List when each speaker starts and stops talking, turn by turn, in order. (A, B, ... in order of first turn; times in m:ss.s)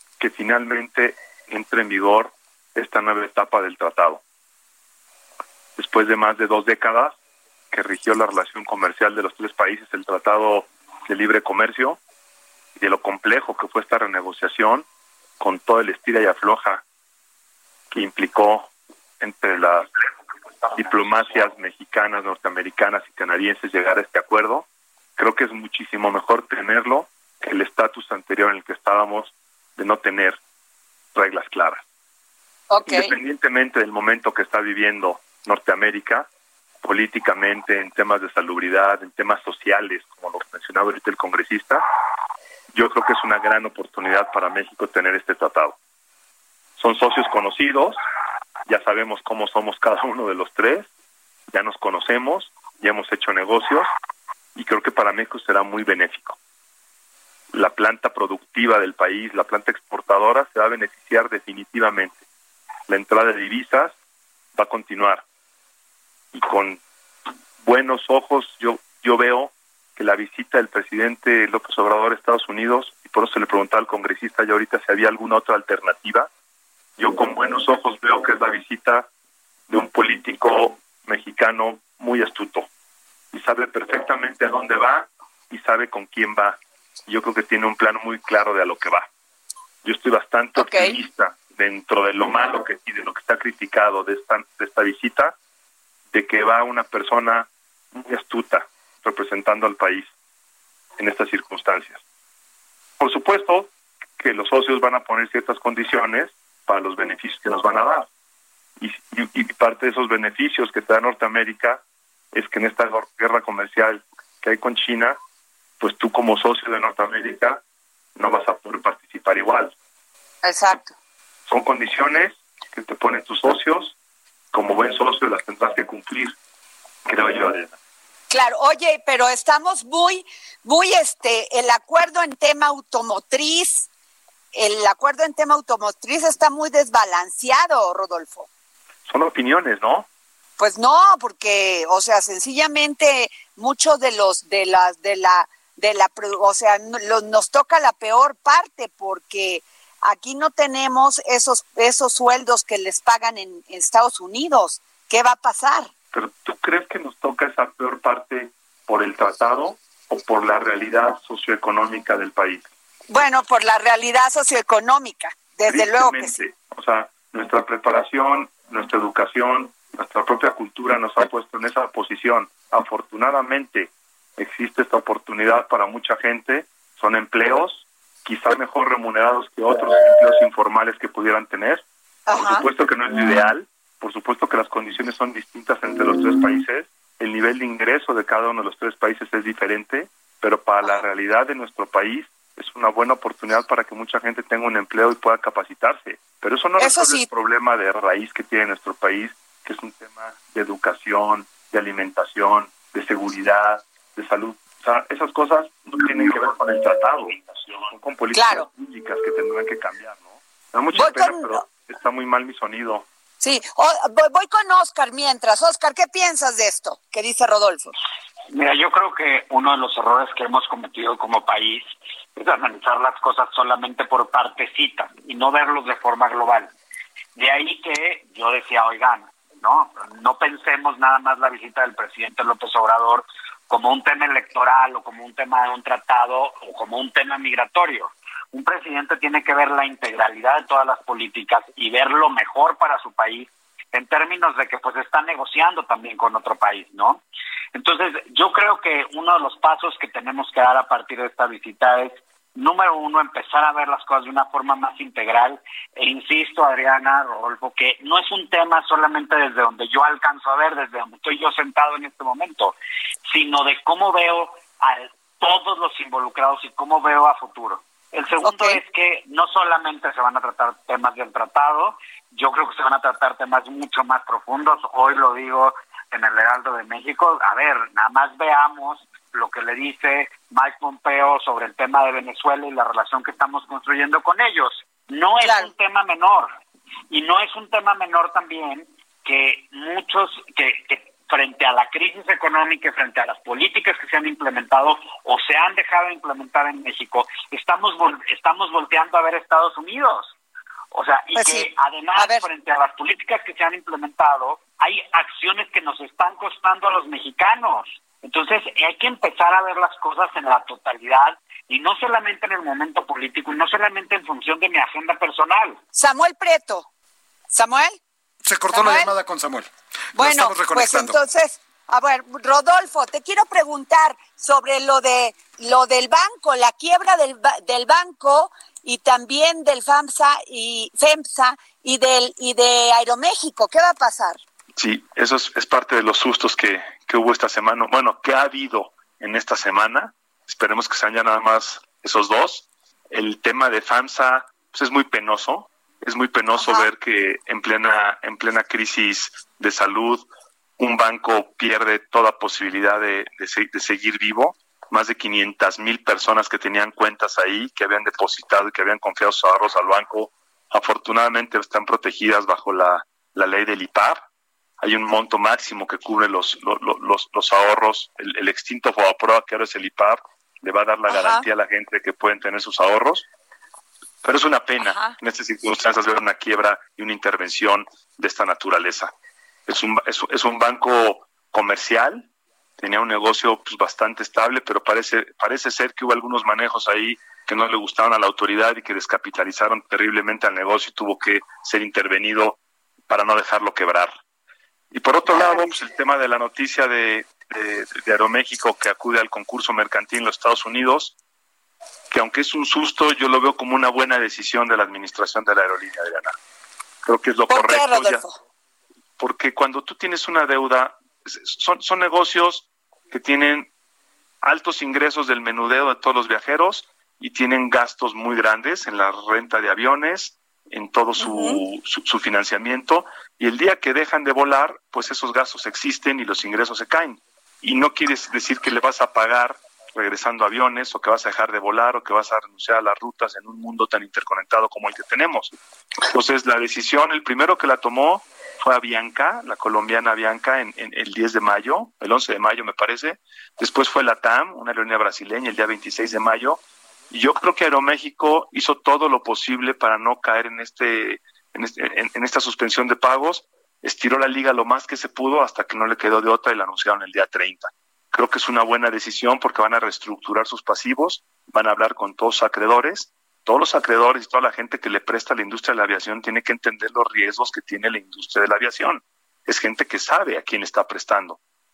0:00.2-0:04.2 A
0:05.8-0:07.1 A
0:07.7-0:12.0 A
0:12.8-0:14.8 A
0:15.4-0:16.8 A
0:17.9-0:19.9 A
0:20.7-0:30.4 A
0:31.1-0:31.8 A
0:32.7-0:33.1 B
0:32.8-0:36.3 A
0:36.8-0:41.8 A
0:42.7-0:45.8 A
0:46.8-0:48.0 A
0:48.7-0:50.9 A
0:51.5-0:53.9 A
0:54.6-0:56.4 A
0:57.5-1:02.2 A
1:02.9-1:03.9 A
1:04.5-1:05.2 A
1:06.3-1:06.8 A
1:07.6-1:16.3 A
1:17.0-1:19.1 A
1:19.7-1:22.7 A
1:23.3-1:29.1 A
1:29.8-1:35.4 A
1:30.6-1:30.9 B
1:36.1-1:40.1 A
1:41.0-1:42.0 A
1:43.0-1:48.1 A
1:48.8-1:51.8 A
1:52.3-1:55.2 A
1:55.8-1:57.6 A
1:58.2-1:59.7 A
2:00.4-2:00.9 B
2:01.5-2:03.9 A
2:04.5-2:06.4 A
2:07.0-2:07.7 A
2:08.3-2:13.9 B
2:14.5-2:18.5 B
2:19.1-2:20.1 A
2:20.6-2:35.9 B
2:36.1-2:42.7 A
2:43.1-2:46.3 B
2:45.7-3:33.0 A
3:02.3-3:02.6 B
3:16.8-3:17.3 B
3:28.3-3:28.7 B
3:31.0-3:31.6 B
3:33.4-3:37.9 B
3:38.5-3:41.8 C
3:42.4-3:46.7 C
3:47.4-4:07.2 C
4:07.7-4:22.8 C
4:23.3-4:46.5 C
4:28.4-4:28.8 B
4:45.4-4:45.7 B
4:47.1-5:00.3 C
5:00.9-5:15.8 C
5:01.4-5:02.4 B
5:15.9-5:16.9 B
5:17.5-5:18.0 B
5:18.4-5:21.2 D
5:18.7-5:19.1 B
5:20.2-5:34.4 B
5:34.8-5:50.2 A
5:46.5-5:46.9 B
5:50.8-6:04.2 A
6:04.8-6:13.3 A
6:11.1-6:11.4 B
6:14.2-6:19.1 A
6:14.8-6:15.1 B
6:19.7-6:22.3 A
6:22.8-6:32.6 A
6:33.1-6:34.1 A
6:34.9-6:41.1 A
6:35.3-6:35.7 B
6:42.1-6:46.3 A
6:47.0-6:48.2 A
6:47.5-6:48.3 B
6:49.2-6:53.7 A
6:54.4-7:15.5 A
7:01.2-7:01.6 B
7:16.1-7:51.4 A